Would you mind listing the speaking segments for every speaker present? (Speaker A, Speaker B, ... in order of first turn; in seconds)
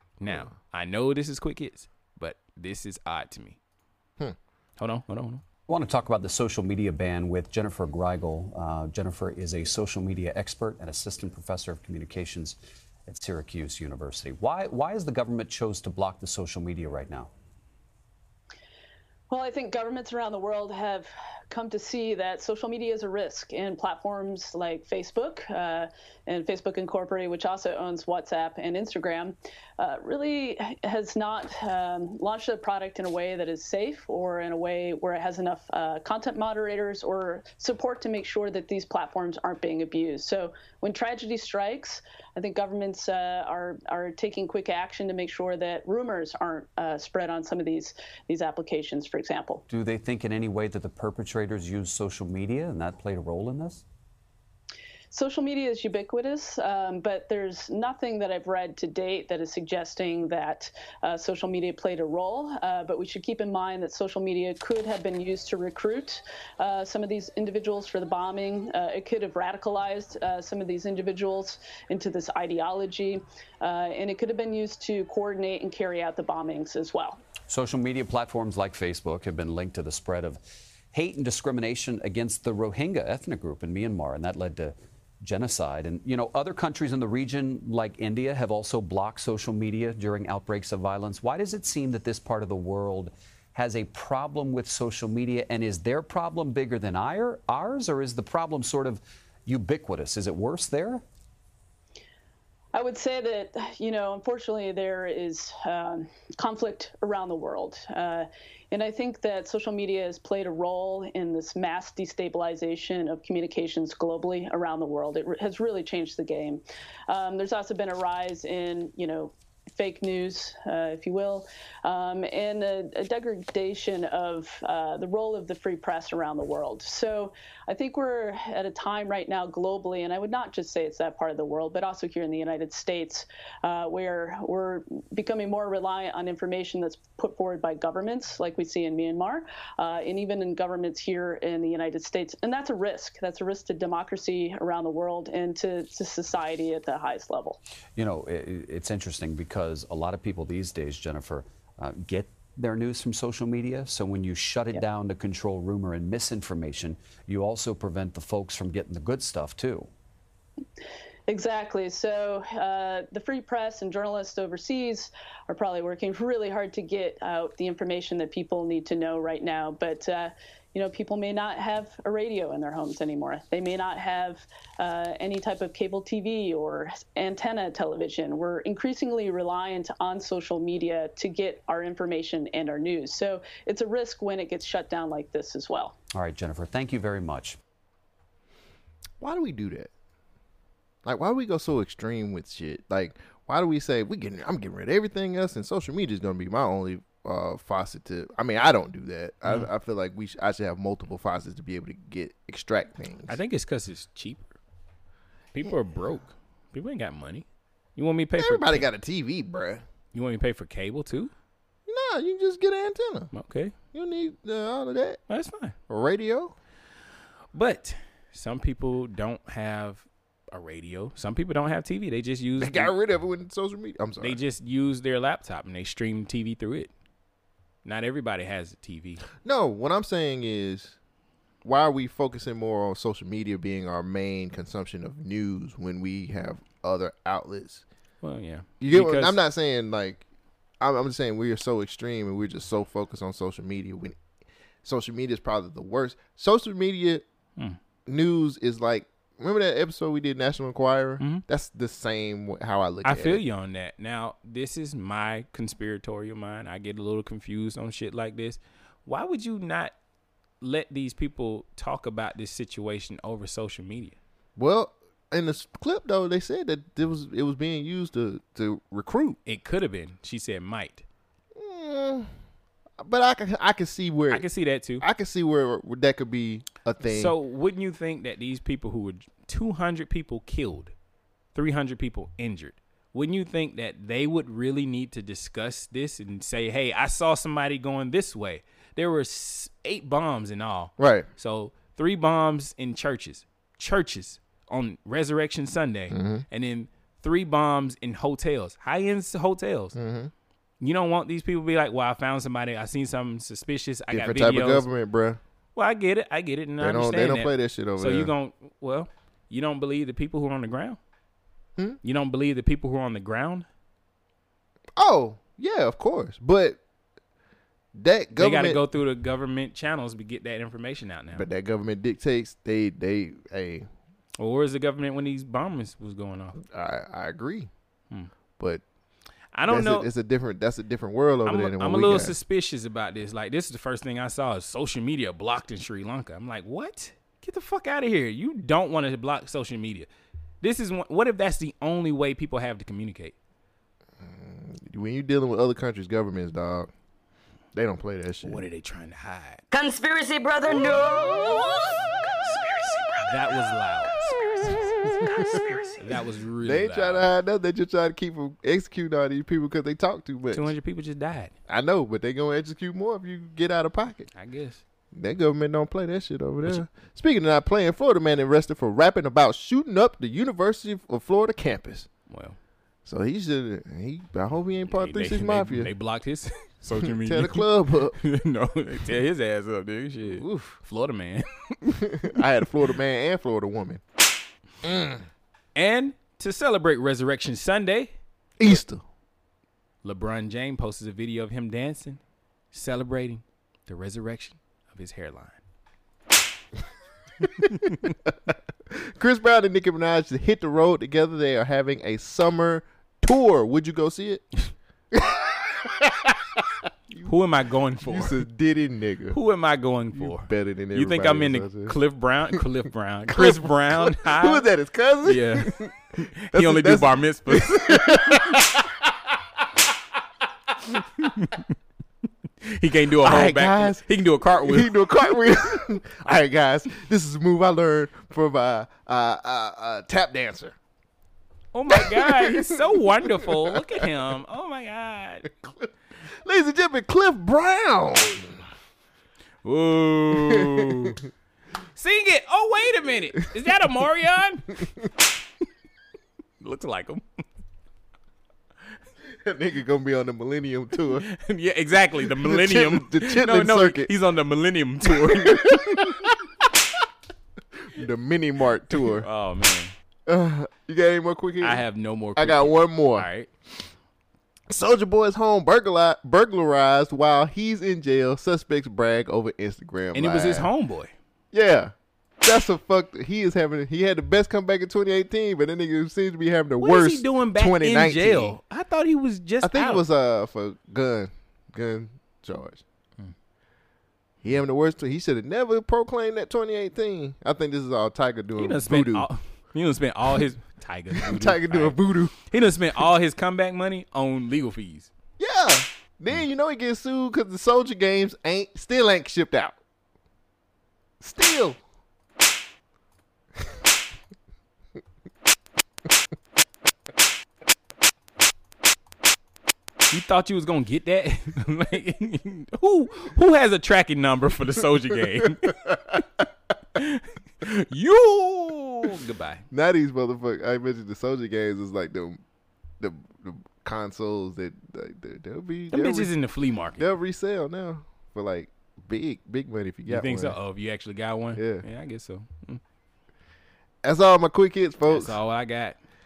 Speaker A: 0.2-3.6, 4.8-5.4, 203.3-204.5, 205.5-208.9, 210.1-211.3, 213.3-213.7, 215.3-215.8, 217.5-222.9, 224.2-226.9, 227.8-229.2, 238.2-239.4, 253.0-259.9, 260.6-264.2, 269.5-271.0, 274.3-275.0, 277.1-280.9, 281.6-300.0, 300.8-304.9, 305.8-311.0, 312.0-313.7, 318.4-321.5, 324.4-326.6, 329.5-330.1, 331.5-340.1, 340.6-343.4, 348.4-349.6, 353.2-357.3, 360.5-361.5, 364.3-364.8, 372.3-372.6, 374.9-382.0, 385.8-388.1, 390.0-392.2, 392.7-395.6, 397.6-398.1, 407.2-408.4, 409.3-414.7, 415.2-418.7, 421.2-421.7, 422.6-425.8, 431.7-435.5, 439.6-441.2, 441.9-444.8, 446.6-447.2, 451.2-456.3, 458.9-459.9, 461.6-463.5, 470.1-471.1, 476.8-480.0, 488.6-495.1, 510.1-515.9, 517.0-519.6, 525.9-527.0, 530.1-532.8, 535.1-536.0
Speaker B: 0.3-0.5, 189.2-189.9, 191.0-203.4, 208.4-209.8, 211.9-213.3, 213.9-215.2, 215.9-216.6, 222.6-224.4, 229.4-231.0, 231.6-237.8, 238.8-240.2, 240.8-244.2, 244.8-247.2, 248.1-253.4, 264.6-269.4, 271.5-272.3, 273.0-274.4, 275.0-277.3, 291.0-291.3, 296.1-296.4, 299.9-300.3, 304.1-305.4, 306.8-308.3, 315.0-316.8, 317.9-318.8, 321.3-323.9, 326.6-327.7, 328.6-328.8, 329.7-332.4, 344.2-346.9, 347.7-348.6, 355.2-355.5, 356.6-360.7, 361.7-364.3, 365.1-372.1, 373.1-375.9, 376.9-378.2, 380.2-380.8, 381.9-384.0, 384.8-385.3, 388.6-389.0, 397.4-404.4, 405.1-407.3, 408.1-409.4, 410.1-412.0, 413.3-415.9, 416.5-419.4, 423.2-430.8, 431.9-434.1, 435.6-438.6, 440.3-441.2, 449.3-451.3, 452.2-454.1, 455.1-456.4, 457.9-459.3, 460.3-461.8, 462.4-463.3, 464.7-470.7, 471.5-478.6, 479.6-482.8, 484.4-489.3, 491.1-492.3, 495.4-499.8, 501.2-501.8, 515.4-516.2, 519.7-522.4, 523.0-526.3, 527.0-530.6, 531.5-531.9, 534.0-535.4
Speaker C: 5.7-17.3, 49.7-53.8, 77.4-80.4, 80.9-101.0, 148.0-159.9, 186.1-187.6
Speaker D: 19.3-49.6, 55.1-77.2, 102.7-147.6, 161.3-185.9
Speaker E: 349.7-351.9, 352.4-353.1, 355.2-355.6